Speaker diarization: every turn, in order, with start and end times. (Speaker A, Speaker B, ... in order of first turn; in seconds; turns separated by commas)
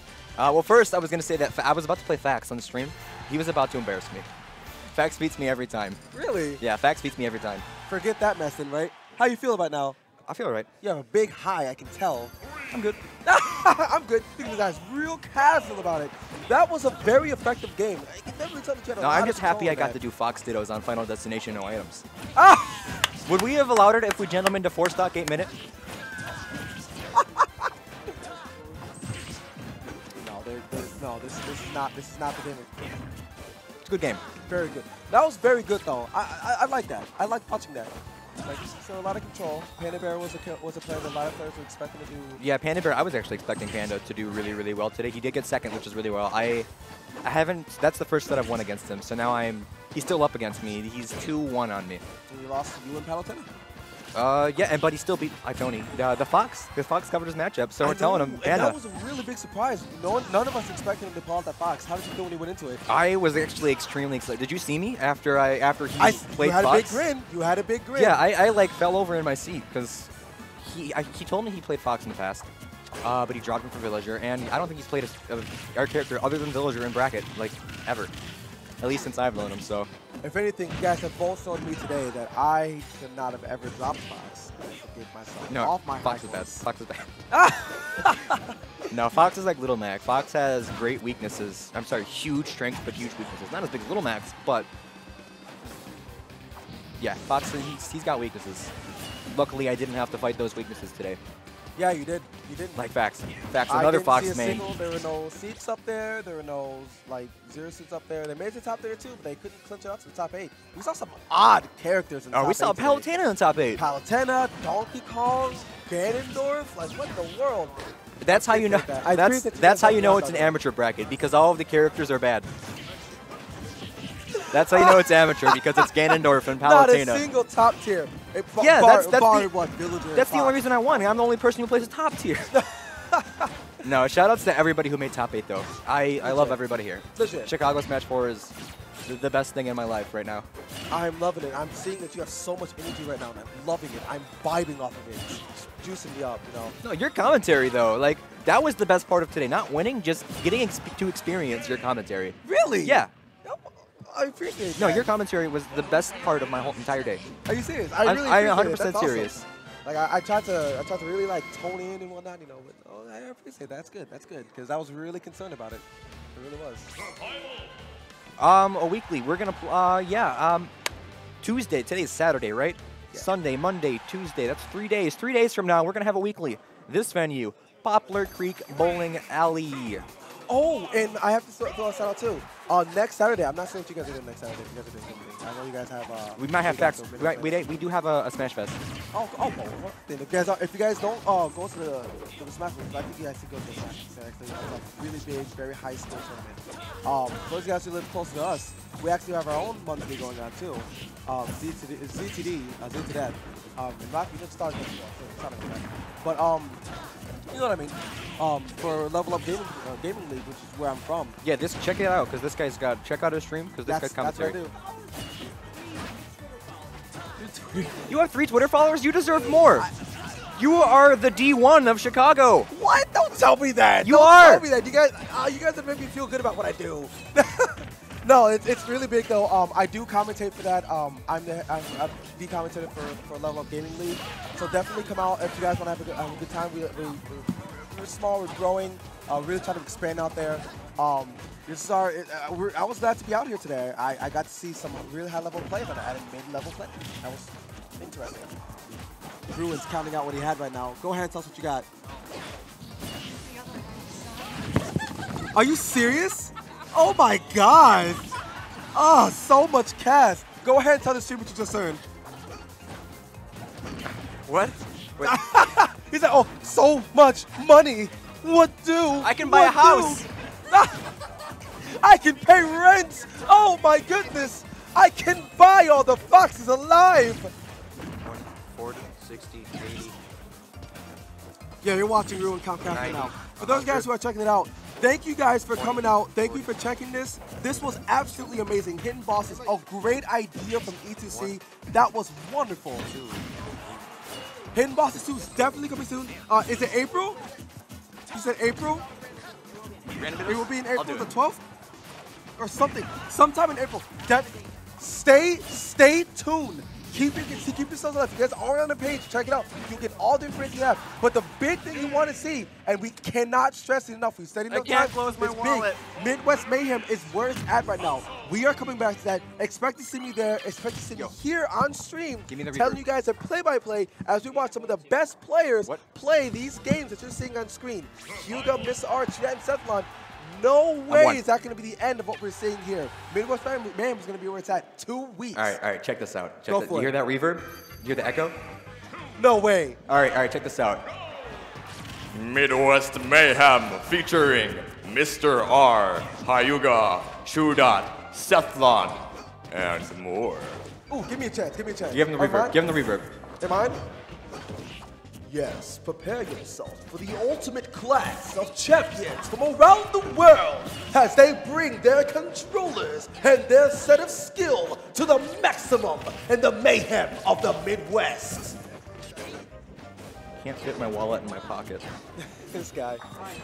Speaker A: 0.4-4.3, Speaker A: 4.9-6.0, Speaker B: 6.1-6.6, Speaker A: 6.6-7.7, Speaker B: 7.9-10.0, Speaker A: 10.3-10.7, Speaker B: 10.8-12.3, Speaker A: 12.7-13.0, Speaker B: 13.2-20.0, Speaker A: 19.0-22.0, Speaker B: 22.4-22.9, Speaker A: 23.2-25.5, Speaker B: 27.1-27.7, Speaker B: 30.1-32.8, Speaker A: 33.8-34.2, Speaker B: 34.5-42.4, Speaker A: 42.4-46.7, Speaker A: 47.2-52.0, Speaker B: 52.3-53.5, Speaker A: 54.1-58.8, Speaker B: 57.8-62.8, Speaker A: 62.9-67.1, Speaker B: 66.0-68.2, Speaker A: 68.0-72.5, Speaker A: 73.0-78.1, Speaker A: 78.8-79.9, Speaker B: 80.2-86.7, Speaker A: 85.5-87.1, Speaker B: 87.3-88.6, Speaker A: 88.9-94.7, Speaker A: 97.0-98.7, Speaker A: 99.3-101.2, Speaker B: 101.8-102.9, Speaker A: 102.8-104.7, Speaker B: 103.7-113.1, Speaker A: 112.3-113.8, Speaker B: 113.8-120.6, Speaker A: 118.2-122.5, Speaker B: 124.3-125.9, Speaker A: 124.5-127.3, Speaker B: 126.6-131.1, Speaker A: 128.6-129.5, Speaker A: 130.1-132.5, Speaker B: 132.5-133.5, Speaker A: 133.8-138.6, Speaker B: 136.2-136.6, Speaker B: 137.2-137.5, Speaker A: 139.1-140.5, Speaker B: 140.9-146.8, Speaker A: 146.8-153.1, Speaker B: 152.4-155.1, Speaker A: 154.8-157.3, Speaker B: 157.5-166.9, Speaker A: 158.0-159.4, Speaker A: 168.4-170.7, Speaker A: 171.4-180.1, Speaker B: 180.5-187.7, Speaker A: 186.4-188.8, Speaker B: 189.1-206.8, Speaker B: 207.5-211.4, Speaker A: 211.4-214.6, Speaker B: 213.9-214.8, Speaker B: 217.4-218.1, Speaker A: 218.1-219.9, Speaker A: 220.6-222.7, Speaker B: 222.7-248.5, Speaker A: 224.0-224.7, Speaker B: 249.5-251.9, Speaker B: 255.5-258.3, Speaker B: 258.9-262.0, Speaker A: 264.5-265.4, Speaker B: 265.2-271.1, Speaker A: 269.2-270.3, Speaker B: 271.9-277.5, Speaker A: 278.2-280.2, Speaker B: 281.8-293.1, Speaker A: 282.9-284.1, Speaker A: 285.7-286.6, Speaker A: 291.3-291.5, Speaker A: 293.1-294.1, Speaker B: 294.7-297.4, Speaker B: 298.3-299.1, Speaker A: 300.1-301.3, Speaker B: 300.4-301.6, Speaker B: 302.6-335.8, Speaker A: 314.7-316.0, Speaker A: 322.5-323.0, Speaker A: 331.1-331.4, Speaker A: 335.6-338.6, Speaker B: 336.7-337.1, Speaker B: 339.4-340.0, Speaker A: 340.1-341.0, Speaker C: 342.3-350.8, Speaker B: 351.1-352.8, Speaker A: 352.1-353.3, Speaker B: 353.6-354.0, Speaker B: 355.4-368.8, Speaker A: 370.6-372.1, Speaker B: 372.4-373.2